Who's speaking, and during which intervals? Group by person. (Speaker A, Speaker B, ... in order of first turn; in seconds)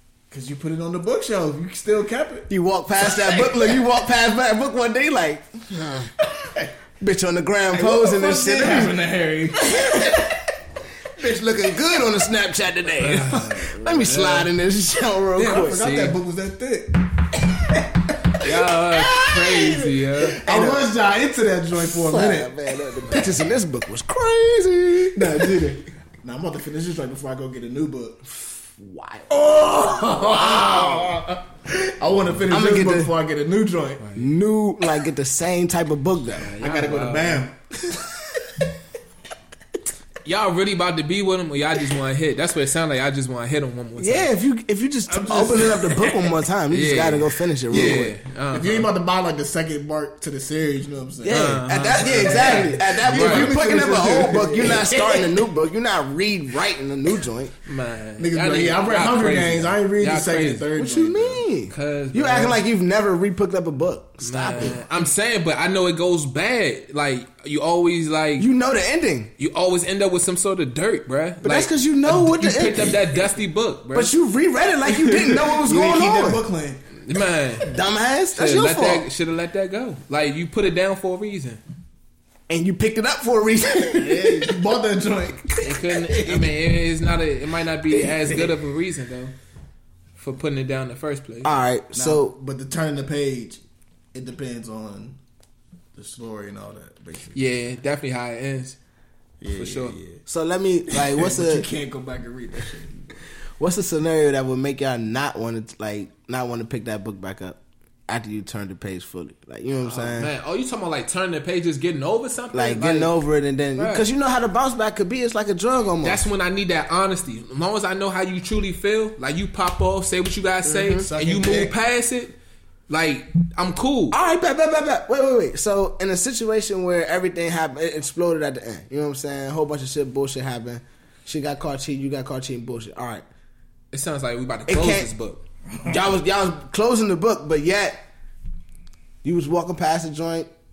Speaker A: 0.3-2.5, 3.0-3.8, 7.7-10.3, 15.4-18.2, 20.3-22.6, 23.1-23.3, 25.1-28.2, 29.3-34.1, 36.6-38.4, 45.1-46.4, 47.7-55.4, 58.2-61.5, 74.9-76.8, 83.9-85.5, 91.9-93.6, 94.1-95.2, 96.0-97.4, 99.4-100.2, 100.9-103.1, 121.0-121.7
Speaker B: 2.5-6.1, 7.0-9.0, 9.6-10.4, 11.2-15.9, 20.4-20.9, 21.8-25.6, 28.3-31.2, 32.5-33.1, 34.2-36.5, 44.0-48.1, 51.2-57.5, 60.8-64.8, 68.4-69.3, 71.4-73.2, 73.9-76.4, 77.6-79.1, 82.5-84.7, 85.5-86.5, 88.0-88.4, 91.4-92.3, 100.3-101.7, 103.6-110.3, 112.5-116.2, 120.7-121.1, 124.1-133.2, 134.7-135.1, 135.8-138.0, 139.2-140.5
Speaker C: 13.0-14.5, 15.6-16.2, 18.4-20.4, 34.0-34.3, 36.4-37.5, 40.2-44.3, 46.7-48.9, 51.3-53.6, 57.7-60.7, 61.7-62.6, 64.2-68.5, 69.4-74.1, 77.0-77.7, 78.3-81.6, 85.6-89.3, 90.2-91.5, 97.3-98.8, 99.5-100.0, 109.8-113.2, 113.8-114.1, 116.0-122.3, 122.9-124.2, 133.9-135.4